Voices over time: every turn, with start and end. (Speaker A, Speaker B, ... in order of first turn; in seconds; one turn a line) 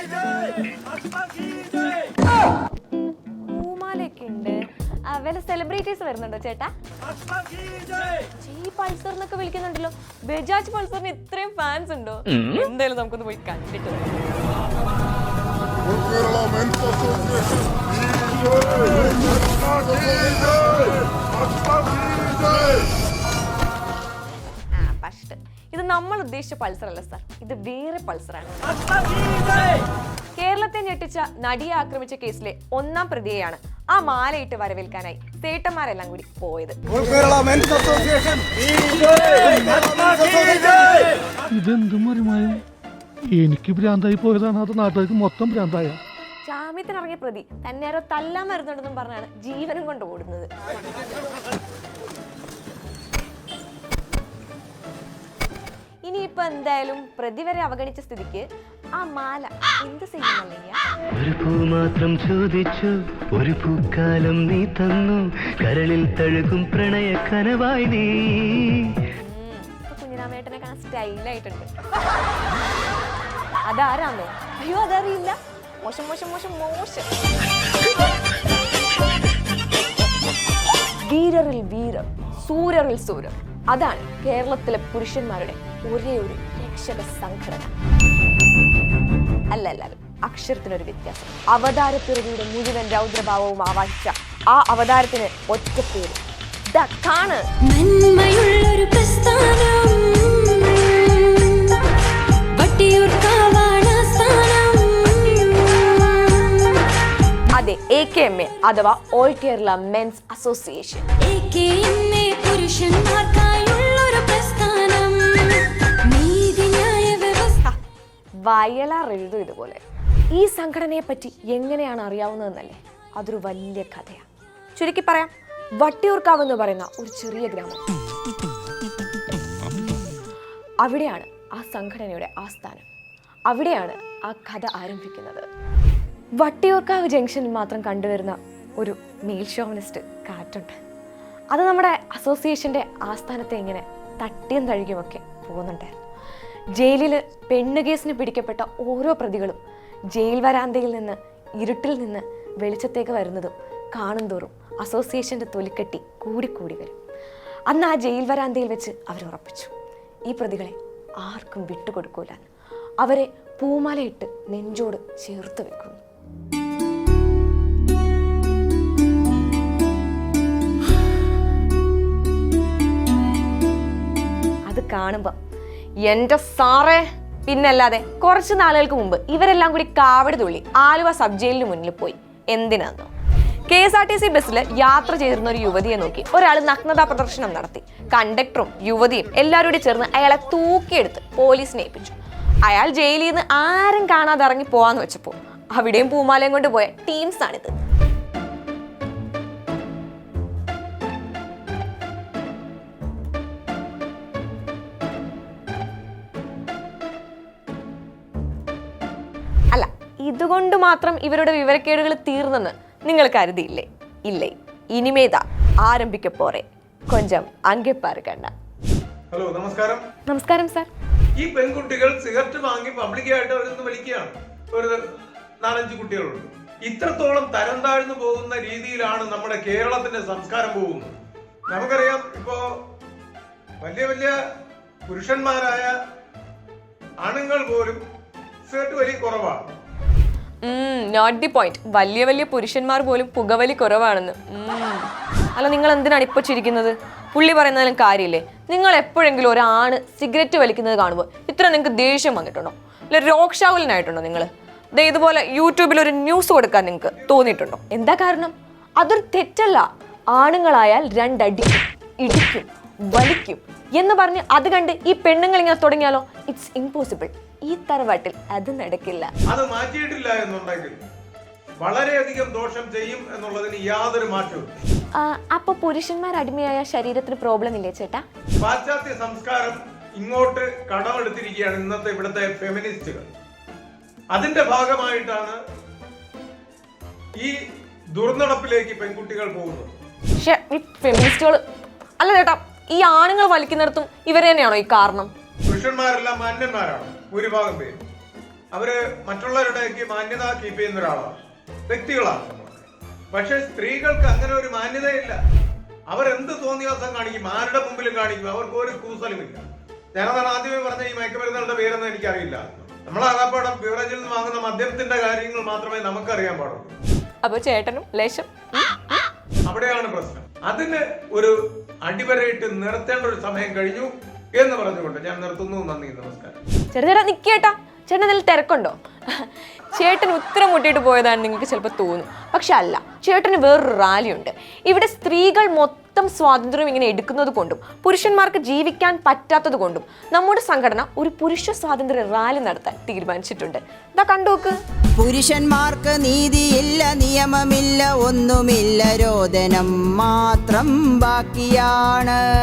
Speaker A: 3.5-6.7
Speaker A: 8.4-14.1
Speaker A: 24.7-28.7
Speaker A: 30.4-36.8
Speaker B: 37.0-38.4
Speaker B: 40.2-40.7
Speaker C: 41.5-42.6
Speaker C: 43.3-46.0
Speaker A: 46.5-50.5
Speaker A: 56.0-58.5
Speaker A: 59.0-60.8
Speaker D: 61.2-68.9
Speaker A: 69.2-71.7
Speaker A: 73.7-77.1
Speaker A: 81.0-87.7
Speaker A: 89.5-97.5
Speaker E: 97.7-101.8
Speaker E: 102.5-106.9
Speaker A: 107.5-111.1
Speaker E: 111.2-117.6
Speaker A: 118.4-119.8
Speaker A: 120.3-127.8
Speaker A: 130.8-132.8
Speaker A: 133.5-135.4
Speaker A: 136.4-140.8
Speaker A: 141.5-146.0
Speaker A: 146.8-149.6
Speaker A: 150.1-156.9
Speaker A: 157.7-159.7
Speaker A: 160.3-162.5
Speaker A: 163.0-166.0
Speaker A: 174.6-175.3
Speaker A: 176.0-183.1
Speaker A: 183.7-197.7
Speaker A: 209.7-218.5
Speaker B: 219.3-220.0
Speaker A: 220.2-220.9
Speaker B: 221.4-231.2
Speaker B: 231.7-232.8
Speaker B: 233.8-234.3
Speaker B: 235.1-235.9
Speaker B: 237.2-238.0
Speaker B: 238.7-239.7
Speaker A: 240.6-269.3
Speaker B: 269.5-271.0
Speaker B: 271.8-274.7
Speaker A: 275.2-278.2
Speaker B: 278.6-283.3
Speaker B: 284.3-285.6
Speaker B: 288.1-289.9
Speaker A: 290.4-291.6
Speaker A: 292.2-295.3
Speaker B: 295.7-298.0
Speaker B: 298.7-301.4
Speaker B: 301.9-305.4
Speaker B: 306.1-316.9
Speaker A: 317.4-319.2
Speaker B: 319.6-326.6
Speaker A: 326.9-344.8
Speaker F: 345.2-352.4